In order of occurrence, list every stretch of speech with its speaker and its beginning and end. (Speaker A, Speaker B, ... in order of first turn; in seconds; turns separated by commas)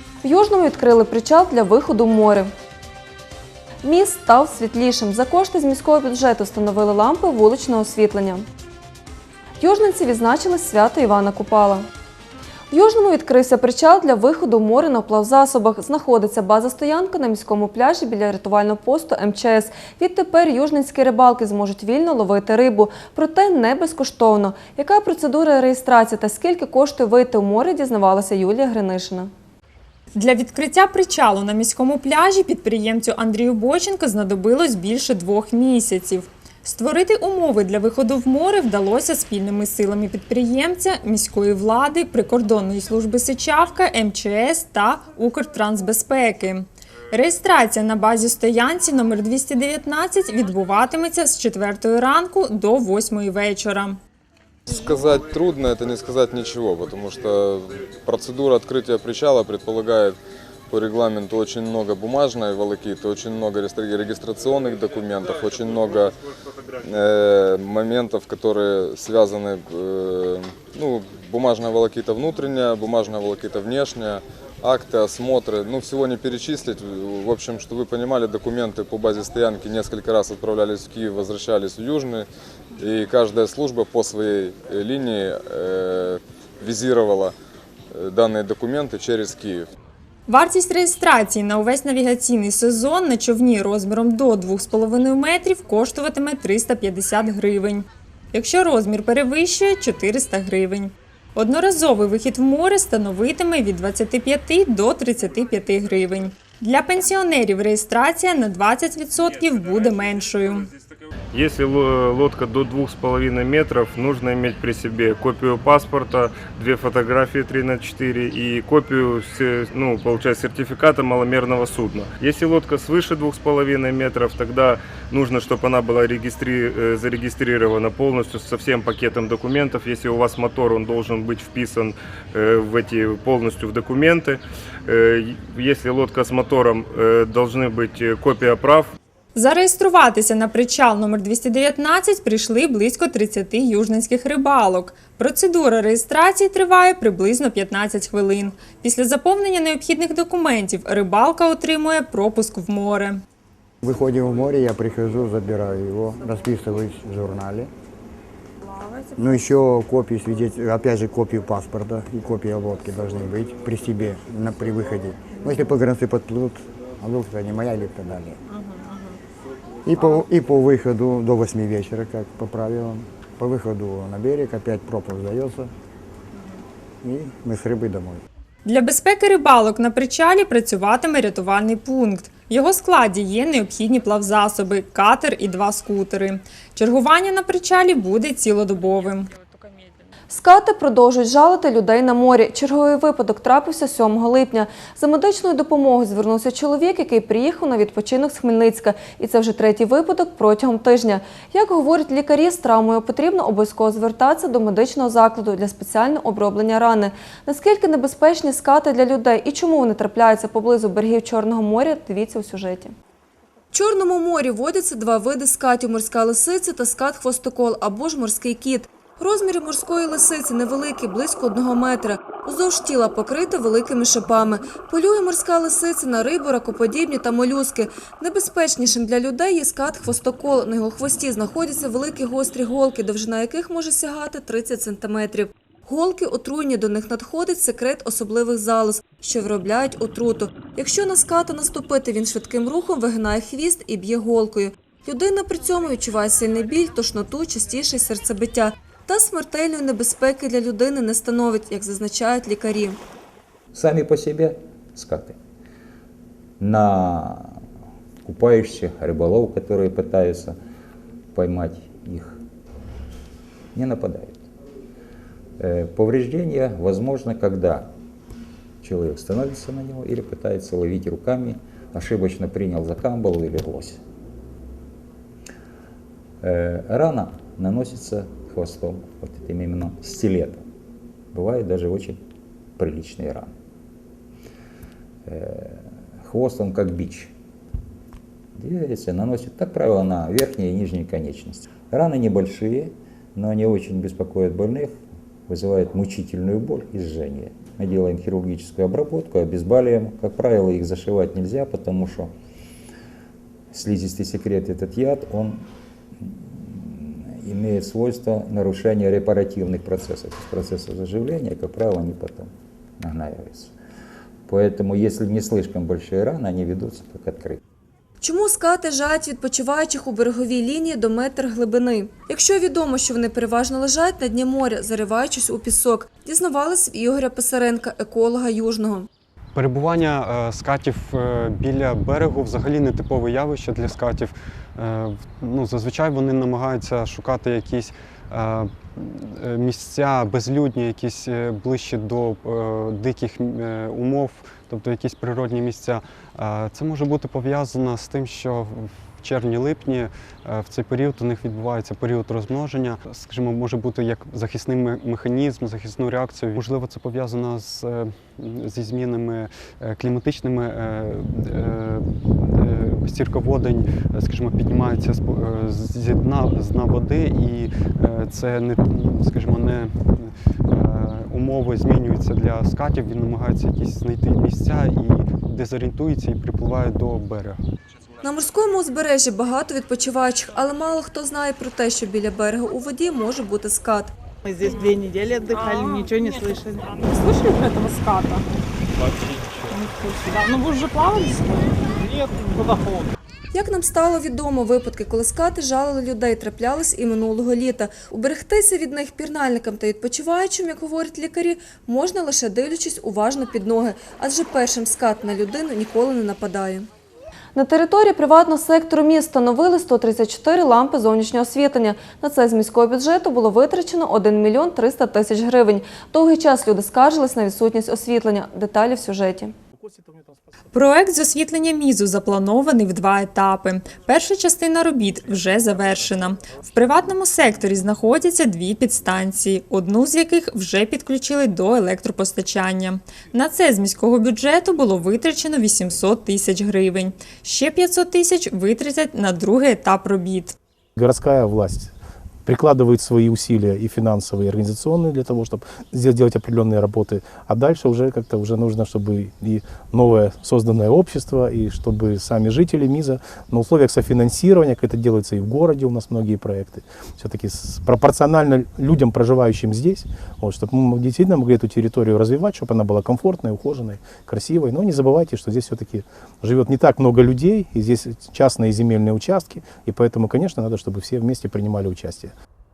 Speaker A: 0.2-2.5, Speaker A: 3.8-8.4, Speaker A: 9.6-11.9, Speaker A: 12.7-29.3, Speaker B: 30.1-54.0, Speaker C: 54.7-60.1, Speaker C: 60.7-66.1, Speaker C: 66.9-82.2, Speaker C: 82.8-87.3, Speaker C: 87.9-89.6, Speaker B: 90.3-110.7, Speaker D: 111.3-138.9, Speaker B: 139.3-153.2, Speaker E: 153.8-157.7, Speaker E: 159.2-168.4, Speaker E: 169.9-175.7, Speaker E: 177.0-178.2, Speaker B: 178.6-189.3, Speaker A: 190.3-212.9, Speaker A: 213.7-253.0, Speaker F: 253.7-255.4, Speaker F: 256.6-257.6, Speaker F: 258.2-260.6, Speaker F: 261.3-262.4, Speaker F: 263.7-264.5, Speaker F: 265.6-267.9, Speaker F: 268.8-274.0, Speaker F: 276.4-280.6, Speaker F: 281.3-282.2, Speaker F: 282.8-283.5, Speaker F: 285.2-287.3, Speaker F: 288.6-302.3, Speaker F: 303.7-305.6, Speaker F: 306.2-312.5, Speaker F: 313.0-313.7, Speaker F: 314.5-317.6, Speaker A: 318.2-329.1, Speaker G: 329.5-377.6, Speaker A: 378.2-384.1, Speaker H: 384.4-386.9, Speaker B: 387.4-388.4, Speaker B: 389.7-390.8, Speaker A: 393.5-406.9, Speaker A: 407.5-419.5, Speaker B: 420.7-440.5, Speaker I: 441.0-441.9, Speaker I: 442.4-472.3